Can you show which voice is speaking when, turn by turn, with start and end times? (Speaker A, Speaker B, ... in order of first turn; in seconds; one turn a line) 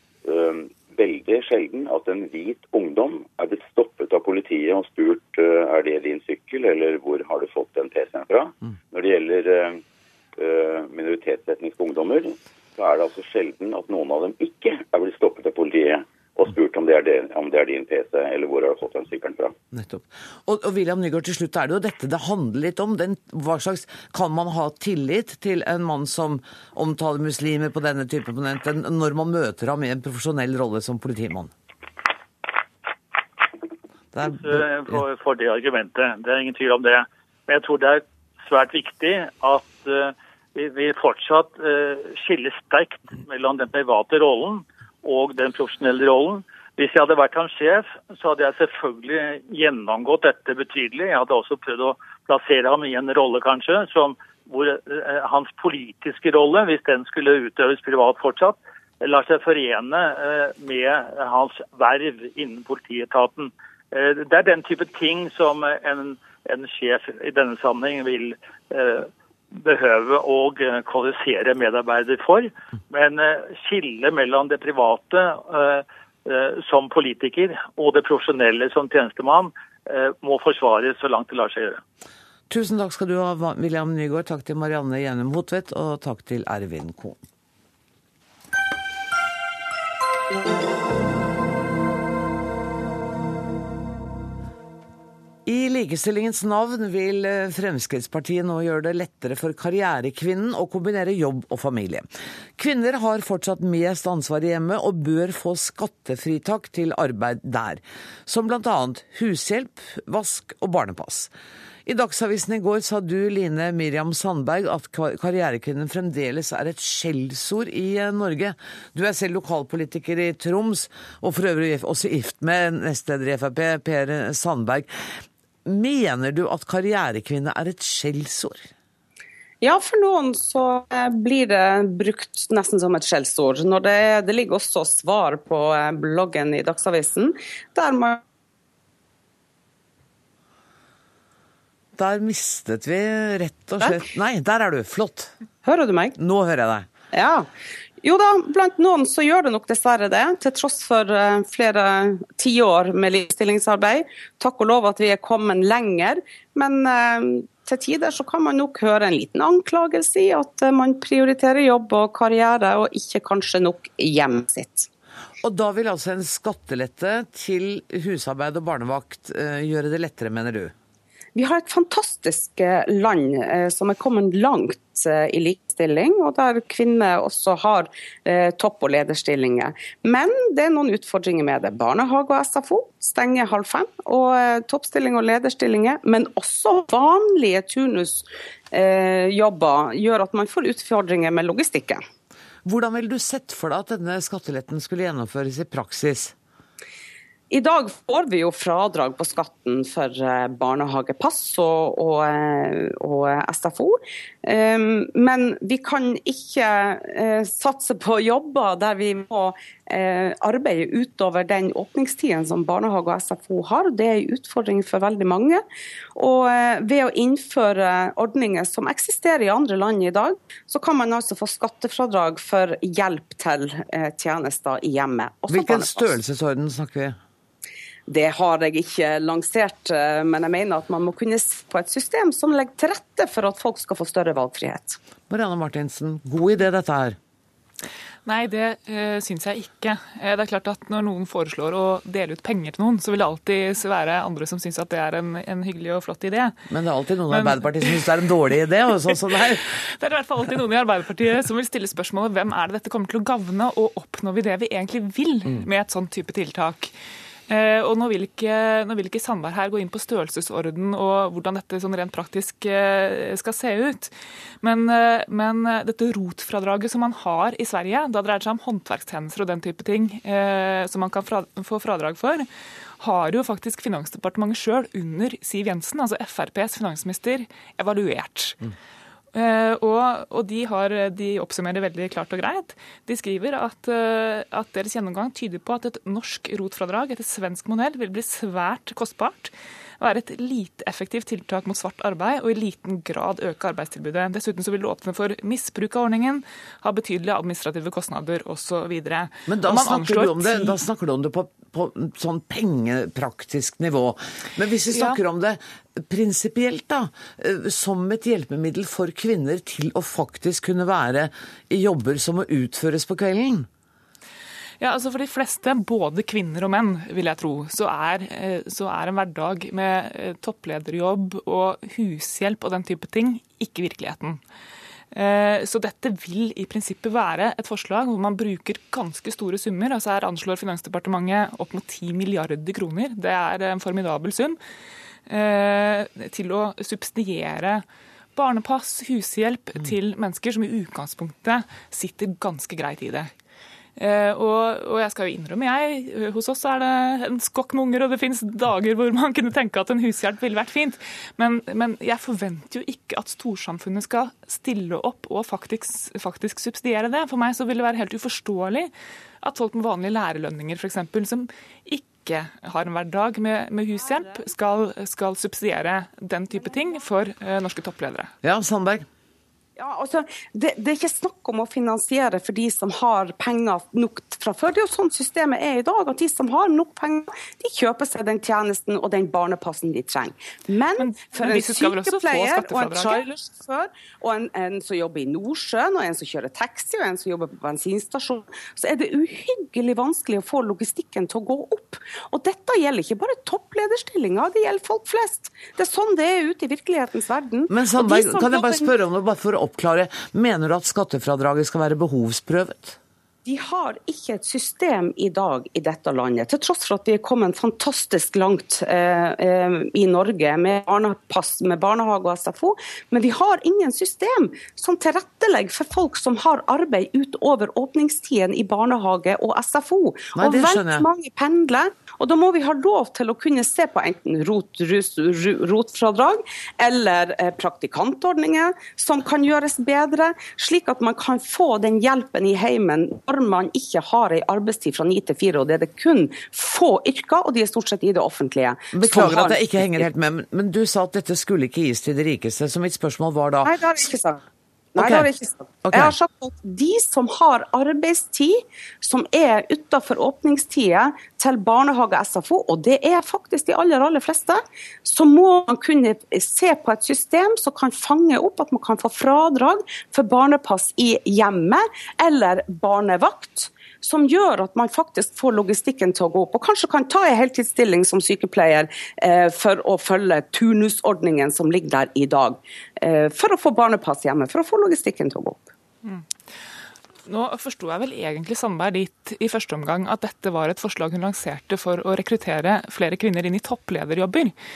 Speaker A: 0.2-9.8
Speaker A: 10.3-19.6
Speaker B: 19.7-31.5
Speaker B: 34.1-35.0
Speaker C: 34.2-81.8
Speaker B: 82.5-87.2
Speaker B: 95.4-102.0
Speaker B: 102.6-111.3
Speaker B: 111.8-125.1
Speaker B: 125.6-128.7
Speaker D: 129.6-138.2
Speaker B: 141.9-145.3
Speaker D: 145.6-146.2
Speaker B: 146.2-146.9
Speaker D: 147.1-147.5
Speaker D: 148.0-164.9
Speaker B: 165.4-170.7
Speaker D: 171.3-192.0
Speaker B: 192.6-196.3
Speaker D: 197.5-215.6
Speaker D: 216.1-226.2
Speaker B: 225.5-227.2
Speaker D: 228.1-235.0
Speaker B: 235.3-237.2
Speaker E: 238.2-246.6
Speaker B: 246.7-249.8
Speaker E: 247.3-248.0
Speaker E: 249.9-256.9
Speaker E: 257.5-272.5
Speaker E: 273.0-278.6
Speaker E: 279.3-300.8
Speaker B: 299.5-313.7
Speaker E: 304.9-305.2
Speaker E: 314.8-324.4
Speaker E: 325.1-334.6
Speaker E: 335.3-343.3
Speaker E: 344.0-368.3
Speaker D: 364.0-364.4
Speaker D: 366.5-367.1
Speaker B: 368.4-369.1
Speaker D: 369.8-398.9
Speaker E: 381.0-383.2
Speaker B: 397.7-403.0
Speaker D: 403.4-440.1
Speaker B: 420.3-421.1
Speaker B: 438.9-443.8
Speaker D: 443.6-444.4
Speaker D: 444.9-475.7
Speaker B: 445.0-445.3
Speaker B: 445.8-446.1
Speaker E: 476.0-476.3
Speaker E: 477.2-484.5